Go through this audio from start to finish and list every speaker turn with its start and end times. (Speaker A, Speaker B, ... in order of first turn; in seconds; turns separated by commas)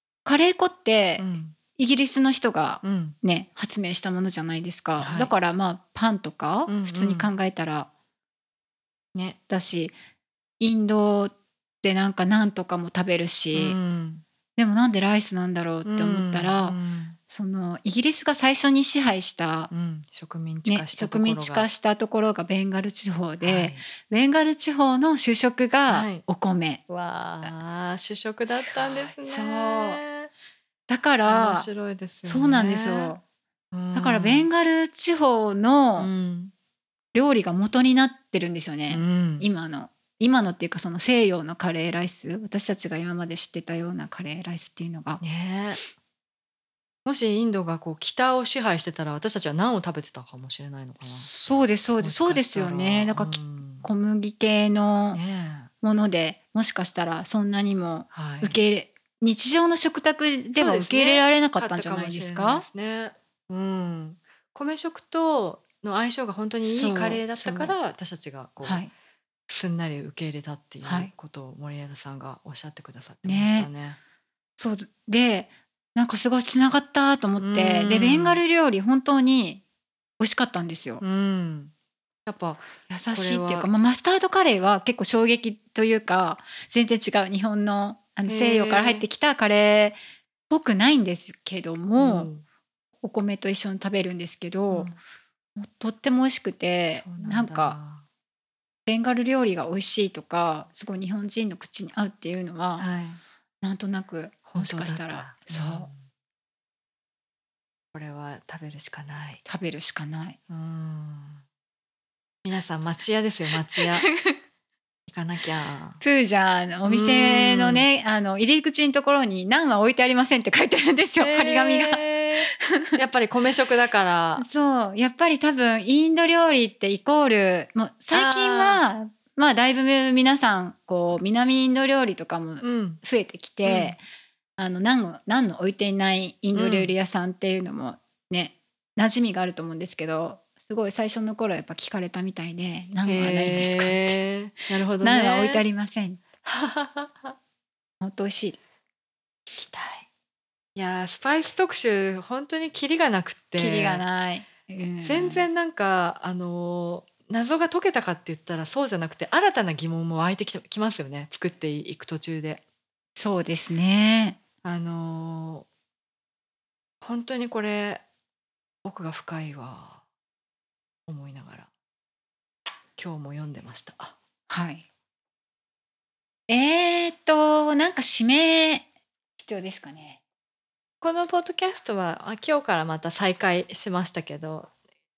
Speaker A: 0.2-7.9, Speaker B: 1.2-1.6, Speaker B: 2.8-3.2, Speaker B: 5.0-5.3, Speaker B: 6.7-7.3, Speaker A: 9.5-10.0, Speaker A: 10.6-13.8, Speaker B: 13.5-14.2, Speaker A: 14.6-16.8, Speaker B: 15.8-17.2, Speaker A: 17.3-19.7, Speaker B: 19.7-21.7, Speaker A: 20.7-26.8, Speaker B: 23.4-23.9, Speaker B: 25.9-26.2, Speaker B: 26.9-30.3, Speaker A: 28.5-30.0, Speaker A: 30.9-31.7, Speaker B: 31.2-33.1, Speaker A: 32.2-33.2, Speaker B: 33.7-34.5, Speaker A: 33.9-36.1, Speaker B: 36.0-36.5, Speaker A: 37.1-45.2, Speaker B: 38.9-39.5, Speaker B: 45.2-45.8, Speaker B: 47.0-51.3, Speaker A: 51.0-55.2, Speaker B: 52.0-53.9, Speaker B: 55.1-55.7, Speaker A: 55.8-62.7, Speaker B: 58.1-58.6, Speaker B: 60.6-68.8, Speaker A: 66.7-67.8, Speaker A: 68.6-68.9, Speaker B: 69.5-74.0, Speaker A: 70.8-71.1, Speaker A: 73.2-73.7, Speaker A: 74.6-79.6, Speaker B: 77.4-78.4, Speaker A: 80.2-81.0, Speaker B: 81.0-81.7, Speaker B: 82.3-83.7, Speaker A: 82.9-90.0, Speaker B: 88.3-89.0, Speaker A: 90.5-92.3, Speaker B: 92.0-92.4, Speaker A: 93.0-94.9, Speaker B: 94.7-95.0, Speaker A: 95.6-97.8, Speaker B: 97.0-98.0, Speaker A: 98.9-102.9, Speaker B: 102.8-103.2, Speaker A: 103.6-105.9, Speaker B: 104.5-106.0, Speaker B: 107.9-109.4, Speaker A: 109.5-110.4, Speaker B: 110.5-111.4, Speaker B: 112.4-114.1, Speaker A: 113.8-114.4, Speaker B: 115.1-116.0, Speaker A: 116.0-123.0, Speaker B: 116.9-117.9, Speaker B: 121.2-124.5, Speaker A: 124.4-134.0, Speaker B: 128.1-128.8, Speaker B: 132.6-133.0, Speaker B: 133.7-134.0, Speaker A: 134.6-144.2, Speaker B: 136.5-136.9, Speaker B: 143.0-145.7, Speaker A: 145.0-146.2, Speaker B: 146.4-147.4, Speaker A: 148.0-148.6, Speaker B: 149.5-150.1, Speaker B: 150.8-154.1, Speaker A: 153.6-155.5, Speaker B: 155.0-162.6, Speaker A: 163.2-164.4, Speaker B: 164.6-165.7, Speaker B: 167.0-168.0, Speaker B: 168.8-170.0, Speaker B: 171.1-171.7, Speaker B: 173.0-174.2, Speaker A: 174.5-174.9, Speaker A: 176.5-178.9, Speaker A: 179.4-180.2, Speaker B: 181.0-184.7